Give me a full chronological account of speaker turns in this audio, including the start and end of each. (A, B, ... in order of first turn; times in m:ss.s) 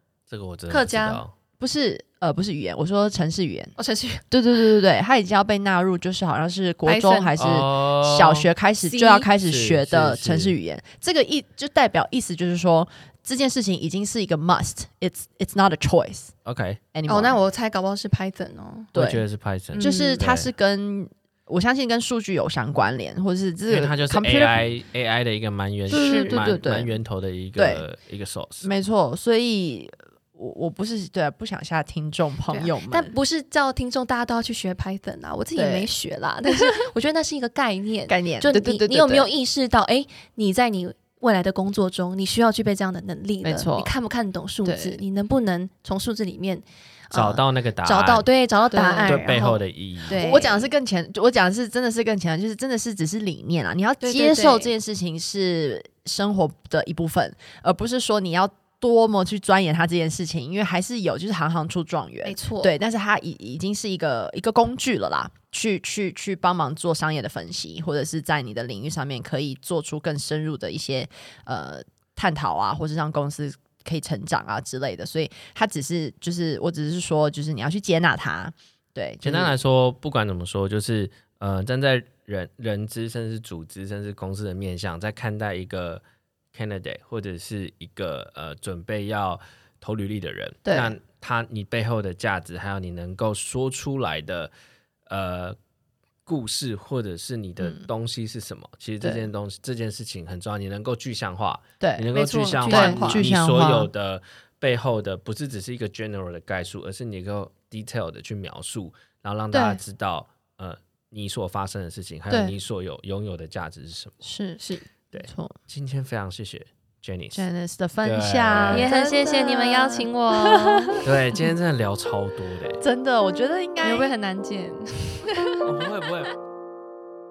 0:00.3-0:01.3 A
0:00.7-0:01.2 B
0:01.6-0:03.7 C
0:03.8-0:04.2 B
0:04.3-0:16.3 C
0:06.8-0:07.3 B
0:07.4-0:08.5 A
0:08.8-0:09.2 B
0:09.3-0:10.5 A
0:16.4-0:16.8 A
0:16.9-0:17.4 C
0:17.1-0:18.9 B
0:18.9-0:20.5 A
0:18.9-0:19.2 C
0:19.7-0:20.2 B
0:19.8-0:24.7 C
0:23.7-0:28.7 A
0:25.9-0:26.9 C
0:25.9-0:26.5 B
0:27.6-0:27.8 C
0:28.6-0:33.1 C
0:32.5-0:50.7 B
0:35.5-0:35.9 C
0:38.1-0:39.3 C
0:43.4-0:43.9 C
0:44.6-0:45.0 C
0:47.1-0:48.3 A
0:48.7-0:49.2 C
0:49.0-0:50.2 A
0:50.1-1:19.6 C
0:54.0-0:54.7 B
1:02.2-1:02.7 B
1:19.2-1:34.5 A
1:30.6-1:31.0 C
1:35.1-1:35.6 A
1:36.2-1:54.2 A
1:37.6-1:37.9 C
1:39.0-1:39.3 C
1:41.8-1:42.1 C
1:42.1-1:43.2 B
1:42.7-1:43.9 C
1:49.5-1:49.8 C
1:52.3-1:52.5 C
1:54.2-1:55.6 C
1:55.1-1:57.4 A
1:57.3-2:01.0 C
1:58.0-1:58.9 A
1:58.7-2:01.0 B
2:01.0-2:02.8 A
2:02.8-2:04.1 C
2:03.8-2:05.6 B
2:05.6-2:06.4 A